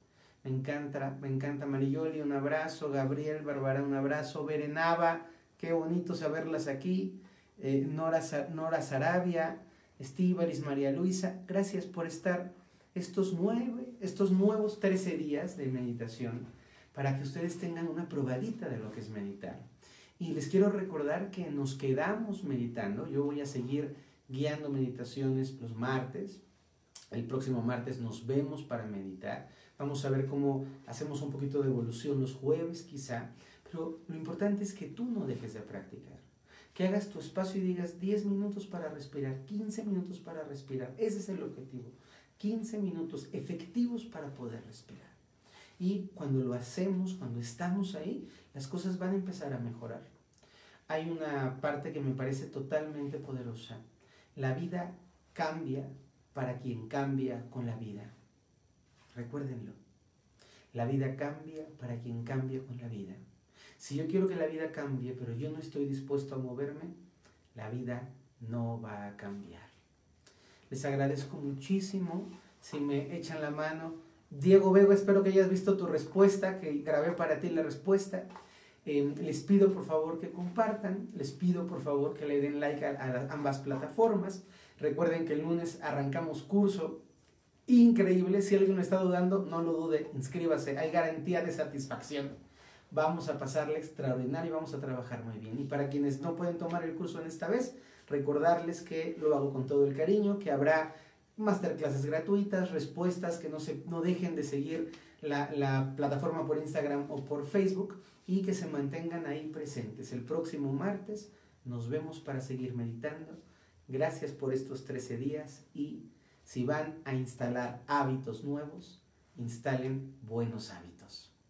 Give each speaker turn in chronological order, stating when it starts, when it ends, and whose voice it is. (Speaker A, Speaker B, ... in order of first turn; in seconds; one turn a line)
Speaker A: 0.4-26.4
Speaker A: 27.1-45.2
Speaker A: 45.8-50.1
Speaker A: 50.9-53.8
Speaker A: 54.4-58.1
Speaker A: 59.1-59.8
Speaker A: 60.7-67.0
Speaker A: 67.5-69.7
Speaker A: 70.7-78.3
Speaker A: 78.8-87.0
Speaker A: 87.7-92.4
Speaker A: 92.9-121.3